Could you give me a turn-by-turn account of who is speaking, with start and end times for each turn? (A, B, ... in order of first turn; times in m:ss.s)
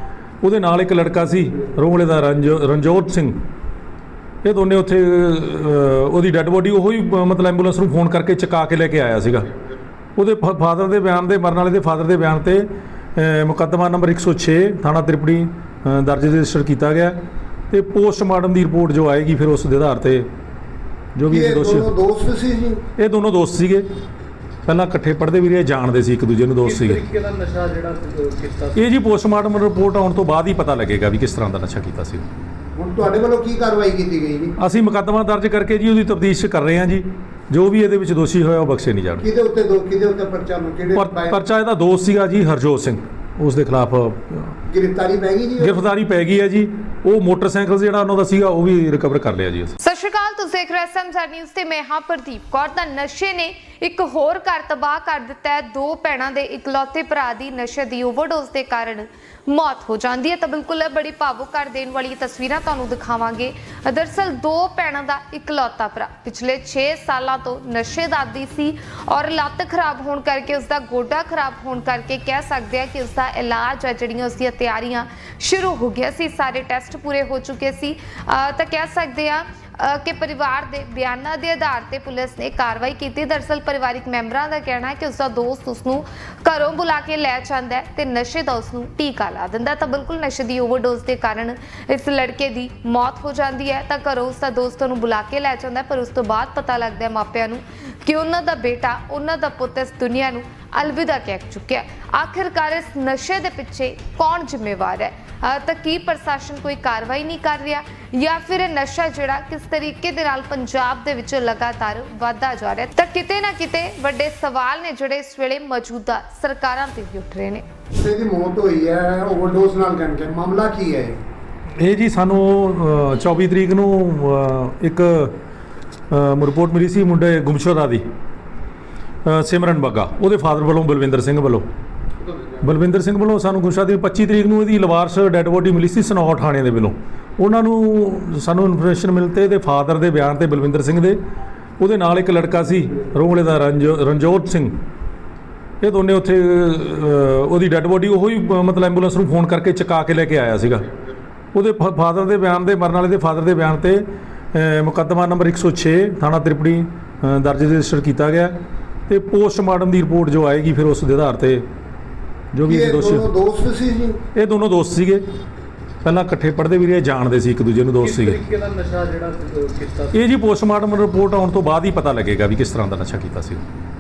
0:00.4-0:03.4 A
0:04.4-0:09.5 A
0:10.2-0:17.2 A
0:17.7-0:20.3 A
0:21.2-0:21.9 A
0:21.3-0:22.8 B
0:23.0-0:23.9 A
0:24.7-0:27.0 A
0:26.6-0:28.8 C
0:28.8-0:32.3 A
0:32.8-0:34.6 B
0:34.6-0:39.3 A
0:39.2-0:41.4 B
0:41.0-0:44.6 A
0:44.7-0:45.8 B
0:45.6-0:49.8 A
0:49.8-1:57.6 D
1:58.0-2:01.2 B
2:01.8-2:05.4 A
2:06.1-2:08.0 A
2:09.3-2:11.7 A
2:12.6-2:21.2 A
2:21.8-2:24.7 A
2:25.8-2:30.9 A
2:31.5-2:38.6 A
2:39.1-2:41.7 A
2:42.5-2:43.3 A
2:42.6-2:44.2 B
2:44.4-2:45.2 A
2:46.0-2:48.4 A
2:48.0-2:50.2 C
2:50.1-2:53.6 A